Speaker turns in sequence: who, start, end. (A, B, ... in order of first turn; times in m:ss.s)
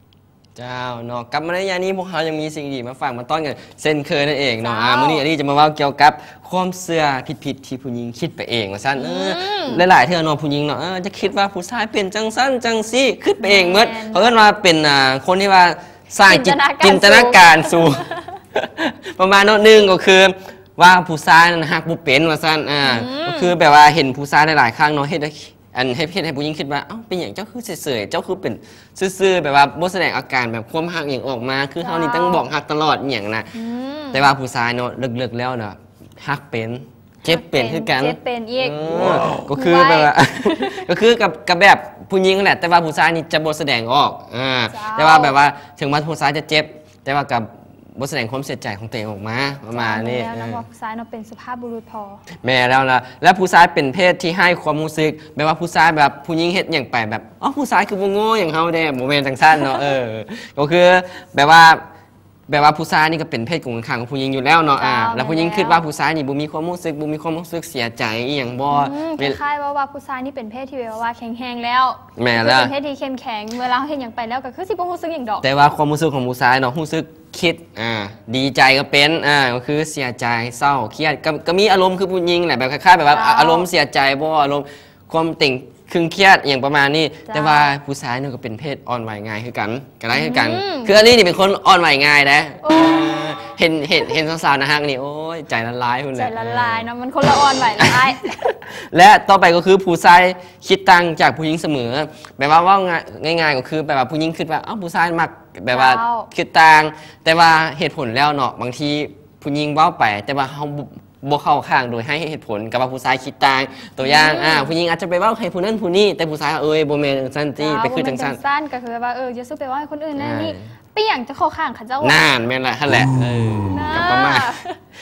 0:00.6-0:18.0 A
0:04.6-0:05.2 B
0:09.0-0:09.8 B
0:13.4-0:14.2 B
0:16.2-0:18.2 B
0:18.6-0:33.5 A
0:22.8-0:23.5 B
0:31.8-0:32.4 B
0:33.5-0:34.2 B
0:34.1-0:50.6 A
0:37.3-0:40.8 B
0:44.7-0:45.3 B
0:49.7-0:52.2 B
0:52.4-1:01.8 A
1:02.5-1:09.4 A
1:04.8-1:05.8 B
1:08.7-1:15.4 B
1:12.2-1:12.7 A
1:15.4-1:36.9 A
1:23.1-1:23.7 B
1:27.3-1:27.7 B
1:30.1-1:31.0 B
1:32.6-1:33.2 B
1:36.1-1:38.3 B
1:37.8-1:58.4 A
1:45.7-1:46.3 B
1:54.0-1:54.7 B
1:57.6-2:02.2 B
2:00.2-2:00.7 A
2:02.0-2:04.5 A
2:03.6-2:04.7 B